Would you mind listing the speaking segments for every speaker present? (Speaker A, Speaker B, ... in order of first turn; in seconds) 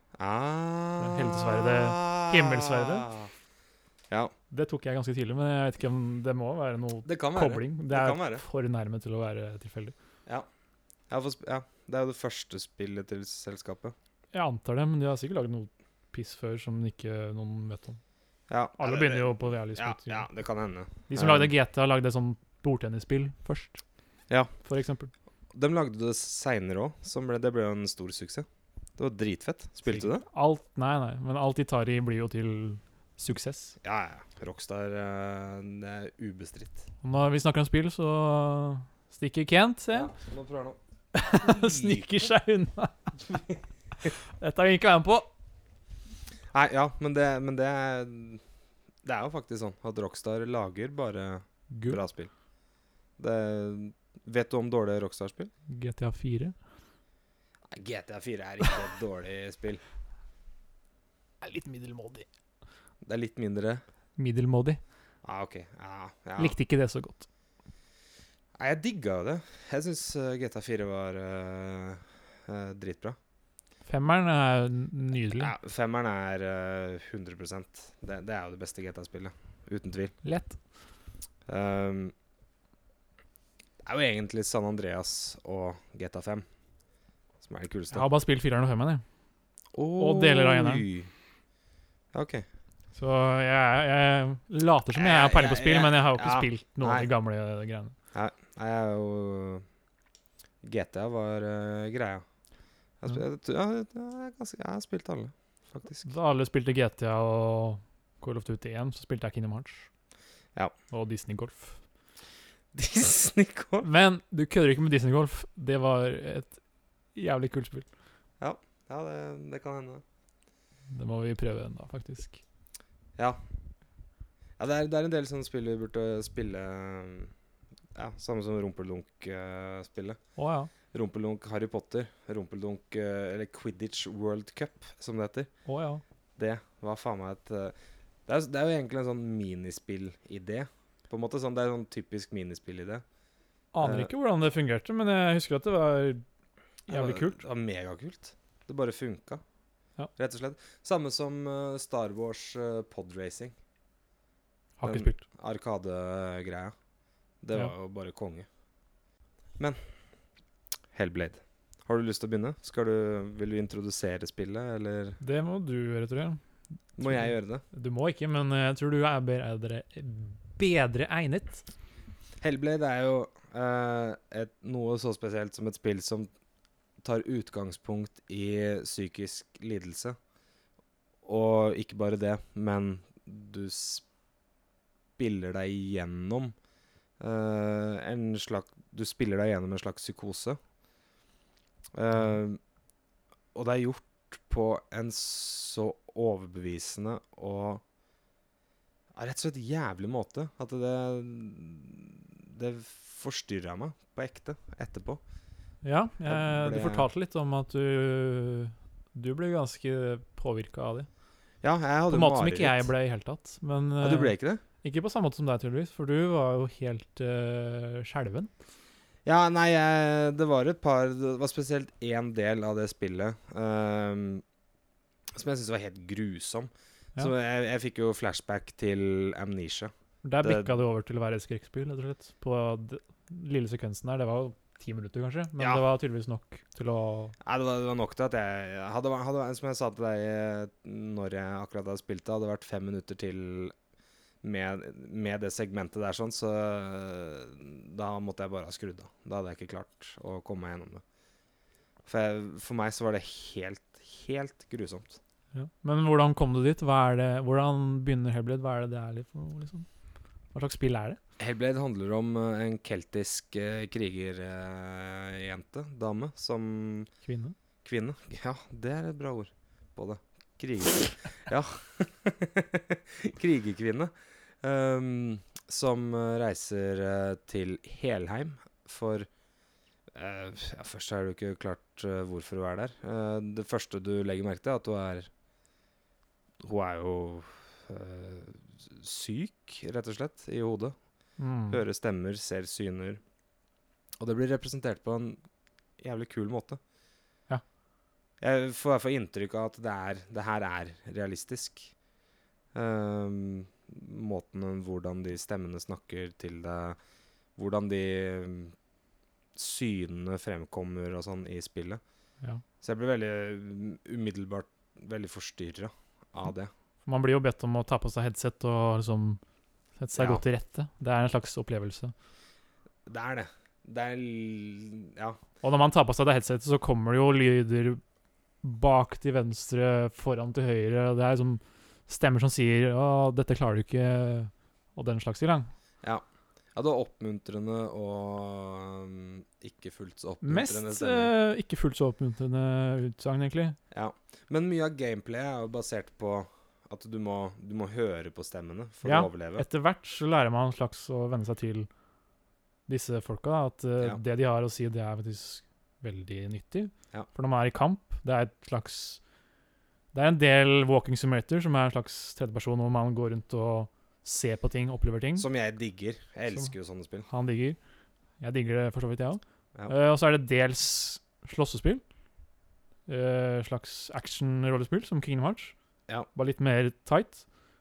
Speaker A: 0.2-3.3, 7.0-8.4, 11.1-13.9, 18.5-21.5, 25.5-28.4, 29.0-30.2, 33.8-36.8, 39.9-40.8, 41.3-42.3, 46.5-48.4, 49.0-52.3, 53.2-55.5, 57.7-59.8, 63.0-63.8, 65.2-66.5, 68.6-73.2, 75.4-80.1, 81.5-82.1, 83.8-86.4, 87.4-88.0, 89.7-91.1, 92.1-92.5, 94.9-97.1, 98.1-99.6, 100.6-102.2, 103.0-106.1, 112.7-113.9, 118.4-120.0, 124.6-127.3, 127.9-130.2, 130.9-135.5, 136.4-137.7, 138.2-143.0, 143.8-144.1, 146.9-149.4, 150.2-153.5, 154.8-156.7, 157.4-158.5, 160.9-165.2, 167.0-167.6, 172.4-176.3, 177.0-180.2, 181.2-184.0, 185.2-186.5, 187.2-190.6, 191.9-192.6, 193.5-197.8, 199.1-205.2, 206.2-207.1, 211.6-212.9, 214.0-214.6, 219.2-224.4, 225.3-230.8, 235.6-235.8, 237.4-243.7, 244.4-251.0, 252.1-255.2, 261.4-267.1, 267.8-279.3, 280.1-285.3, 286.6-290.9, 291.7-293.2, 294.2-295.4, 296.0-296.8, 298.4-301.9, 302.7-307.0, 307.6-308.7, 309.6-312.0, 312.8-316.7, 320.1-320.4, 323.1-325.4, 336.0-341.3, 343.9-349.6, 365.4-367.3
Speaker B: 1.0-3.1, 4.5-9.9, 14.3-18.0, 18.8-20.2, 21.1-23.8, 24.6-25.1, 29.8-33.8, 37.0-40.1, 41.1-43.2, 44.1-45.3, 51.7-52.0, 55.7-56.5, 61.4-62.2, 64.2-64.8, 66.4-67.3, 73.8-75.5, 80.2-80.6, 87.9-89.0, 90.0-90.8, 92.9-97.9, 106.0-109.9, 110.9-111.8, 113.8-116.6, 117.1-117.9, 120.9-122.4, 130.3-130.7, 135.7-136.0, 143.7-146.2, 146.9-147.4, 154.8-155.2, 165.2-166.4, 167.0-171.7, 205.8-211.1, 212.1-218.5, 230.2-237.3, 255.5-259.9, 260.5-261.2, 267.2-267.5, 291.4-291.8, 317.0-319.4, 320.0-322.1, 325.6-328.0, 328.6-335.7, 340.4-343.8, 349.0-351.9, 352.9-359.2, 360.1-365.5, 367.3-367.8, 368.4-372.0, 373.1-375.7, 376.3-377.4